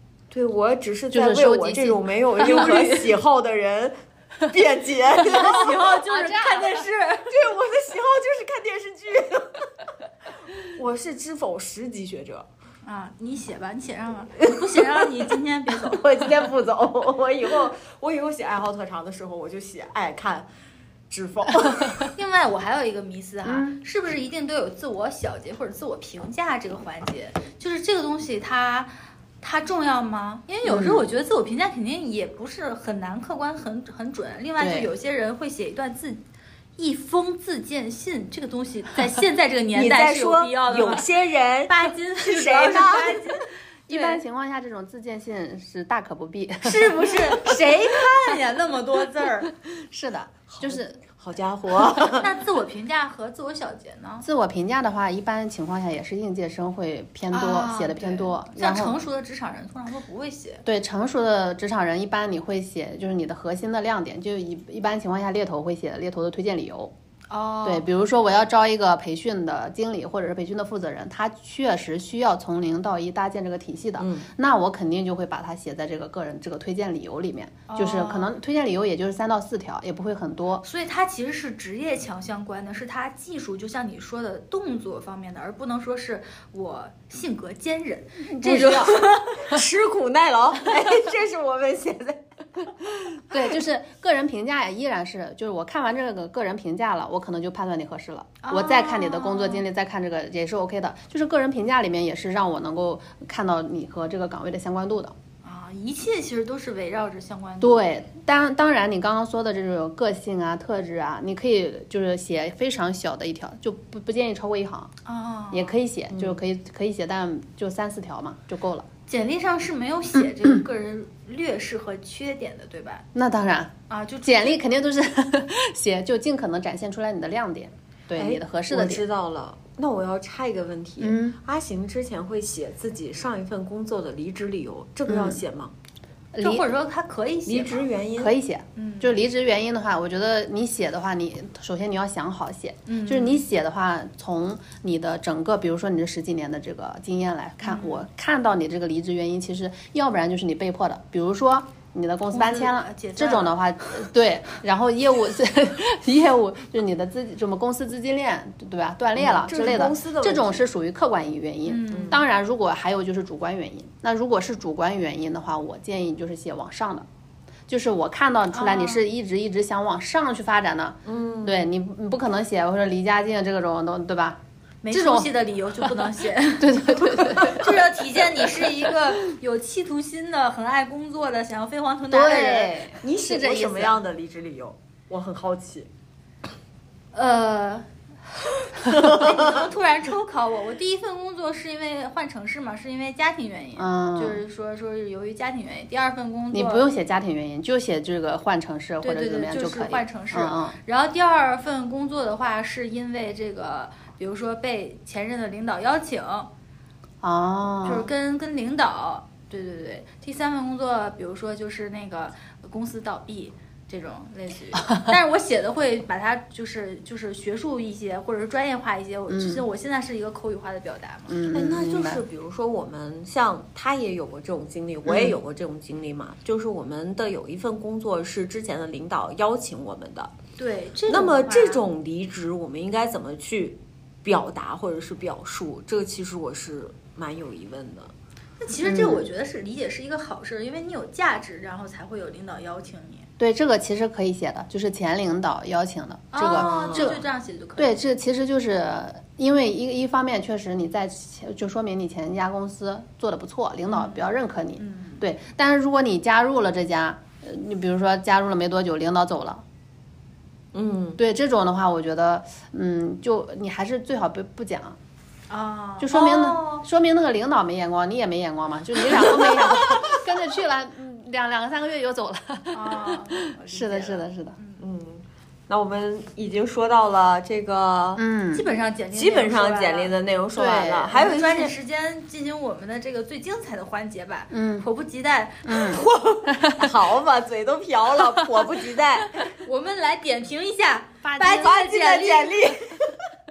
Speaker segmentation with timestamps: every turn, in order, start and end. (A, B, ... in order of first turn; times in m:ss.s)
0:00.3-0:05.9 A
0:01.1-0:02.8 B
0:02.4-0:03.1 C
0:05.2-0:07.3 C
0:06.0-0:06.8 B
0:07.2-0:09.7 A
0:10.5-0:12.4 A
0:12.8-0:16.1 C
0:14.5-0:15.1 A
0:15.7-0:20.5 A
0:21.1-0:22.0 A
0:22.1-0:36.2 C
0:23.4-0:23.8 B
0:30.6-0:31.0 B
0:34.6-0:34.9 B
0:36.8-0:41.1 C
0:39.7-0:43.3 A
0:41.7-0:44.2 C
0:43.9-0:47.9 B
0:46.6-0:49.5 C
0:49.6-0:51.0 B
0:50.5-0:52.3 A
0:52.1-0:54.2 C
0:54.2-0:59.0 B
0:57.3-1:00.6 C
1:00.6-1:06.9 B
1:07.3-1:07.9 C
1:07.6-1:20.6 B
1:14.0-1:14.3 A
1:17.7-1:18.3 C
1:20.6-1:29.5 C
1:28.3-1:29.0 B
1:28.6-1:33.2 A
1:33.3-1:45.2 B
1:38.4-1:39.6 C
1:45.4-1:47.8 C
1:47.6-1:54.9 B
1:55.0-1:55.8 C
1:55.5-1:58.9 B
1:56.1-1:56.4 A
1:59.1-2:03.0 C
2:00.1-2:00.6 B
2:03.1-2:09.0 B
2:03.9-2:04.6 C
2:08.1-2:15.7 A
2:11.0-2:11.4 B
2:15.1-2:15.4 B
2:16.3-2:16.7 B
2:16.4-2:17.9 C
2:17.4-2:18.3 A
2:18.2-2:47.0 B
2:18.8-2:19.2 C
2:22.9-2:23.4 C
2:27.6-2:28.0 C
2:32.3-2:33.6 C
2:39.2-2:40.6 A
2:41.6-2:42.2 C
2:41.9-2:42.2 A
2:47.7-2:54.4 B
2:48.5-2:49.0 C
2:51.0-2:51.7 A
2:54.8-3:02.8 C
2:54.9-2:55.3 B
2:56.6-2:57.7 B
3:02.1-3:04.0 B
3:03.0-3:05.9 A
3:07.1-3:07.9 C
3:08.9-3:16.8 C
3:08.9-3:09.3 A
3:13.8-3:14.4 B
3:16.5-3:20.8 B
3:19.0-3:26.5 C
3:27.2-3:28.1 B
3:27.8-3:41.4 C
3:39.3-3:39.6 B
3:41.3-3:42.2 B
3:41.5-3:50.3 A
3:45.1-3:45.4 B
3:50.6-3:51.8 C
3:51.1-3:58.1 A
3:58.6-4:03.3 C
3:58.8-3:59.2 B
4:03.4-4:07.2 B
4:06.3-4:08.0 C
4:06.4-4:07.1 A
4:07.8-4:19.6 B
4:13.9-4:15.2 C
4:20.7-4:21.2 A
4:21.2-4:25.0 B
4:25.5-4:26.8 C
4:26.0-4:34.6 B
4:32.7-4:34.8 C
4:34.8-4:38.2 A
4:38.2-4:38.6 B
4:38.5-4:40.1 C
4:39.1-4:41.7 A
4:40.6-4:41.2 B
4:41.1-4:45.9 C
4:44.5-4:44.8 B
4:45.6-4:46.9 B
4:45.8-4:49.4 A
4:49.6-4:52.7 C
4:51.2-4:51.7 B
4:51.5-4:53.2 A